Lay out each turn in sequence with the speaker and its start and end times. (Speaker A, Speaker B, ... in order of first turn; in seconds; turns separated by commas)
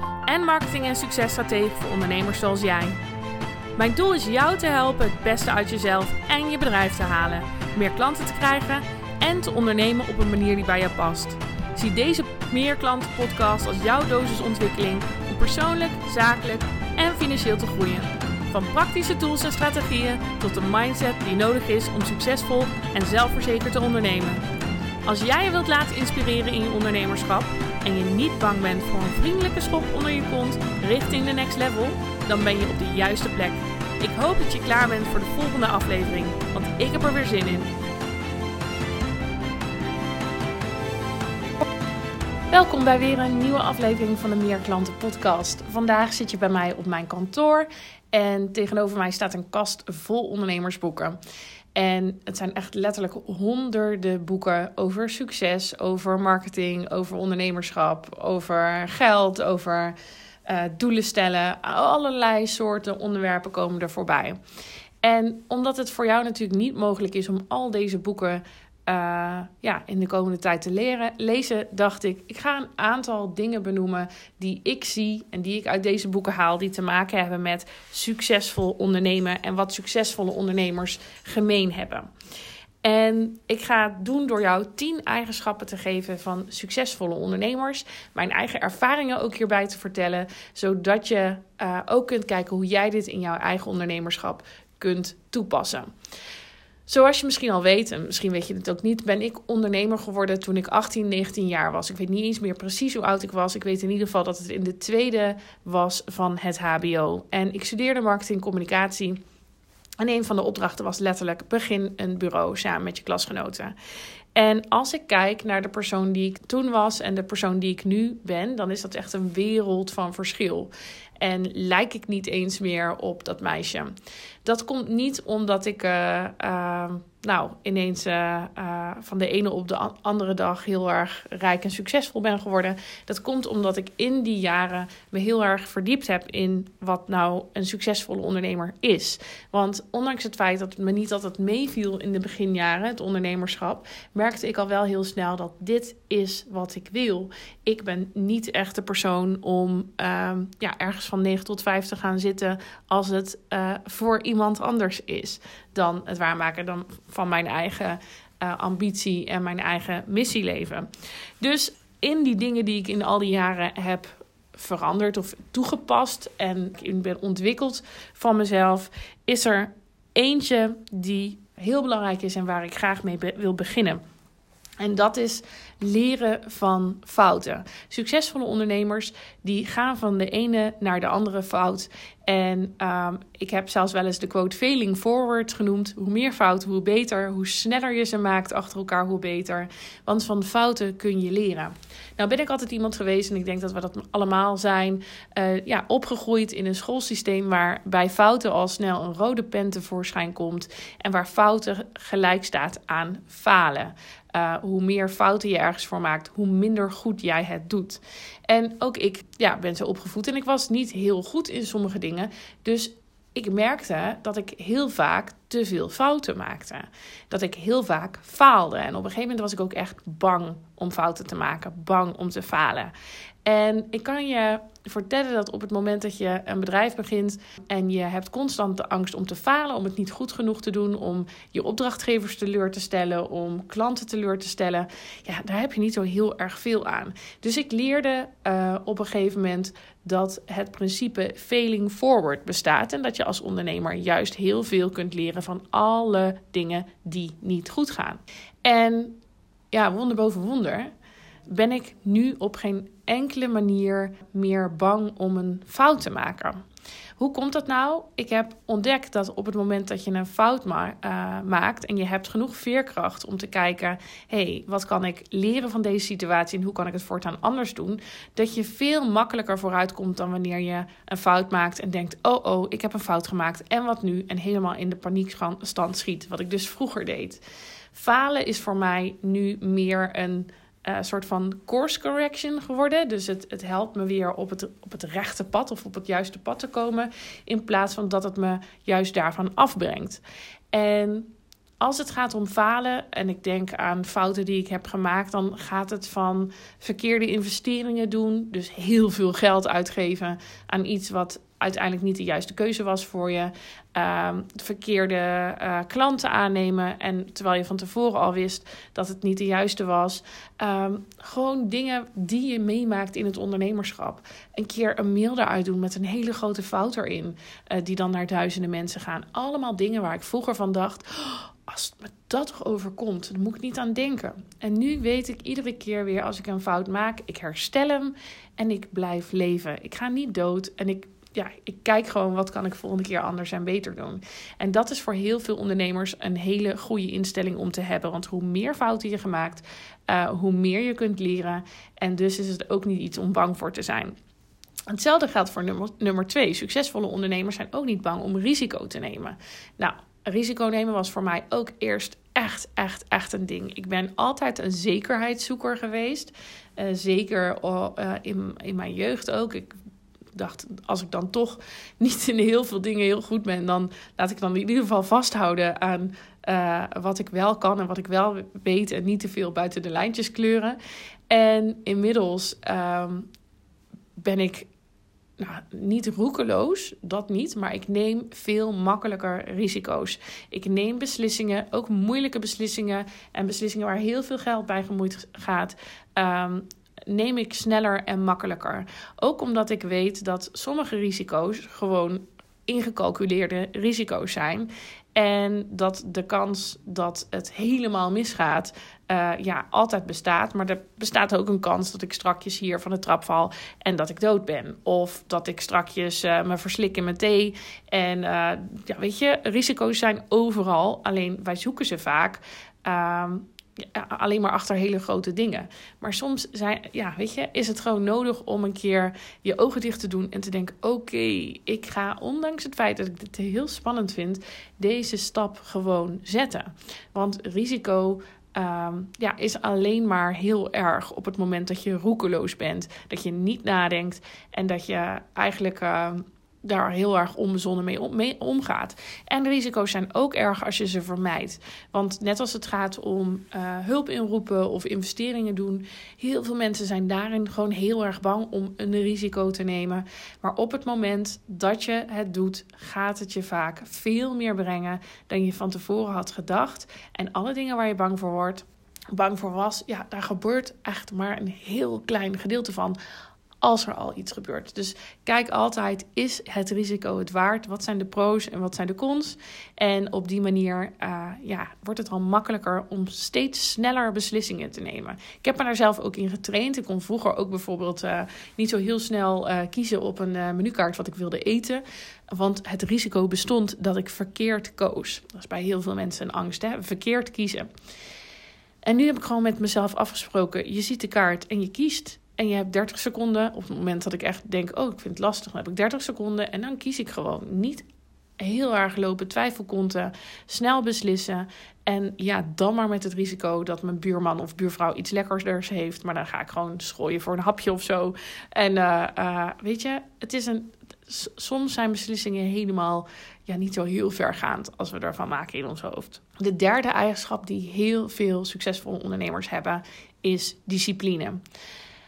Speaker A: 0.3-3.0, Speaker A: 3.8-24.5, Speaker A: 25.1-37.7, Speaker A: 42.5-51.2, Speaker A: 51.8-60.0, Speaker A: 60.5-64.4, Speaker A: 65.0-82.1, Speaker A: 82.8-95.9, Speaker A: 96.9-109.2, Speaker A: 110.0-113.7, Speaker A: 114.3-123.9, Speaker A: 124.5-160.9, Speaker A: 161.4-174.0, Speaker A: 174.8-222.9, Speaker A: 223.4-249.2, Speaker A: 249.7-250.9, Speaker A: 251.5-256.6, Speaker A: 257.2-277.4, Speaker A: 277.9-290.2, Speaker A: 290.7-344.1, Speaker A: 344.9-359.7, Speaker A: 360.4-370.8, Speaker A: 371.3-373.3, Speaker A: 374.2-374.7, Speaker A: 375.4-463.0, Speaker A: 463.6-487.7, Speaker A: 488.9-497.8, Speaker A: 498.4-521.4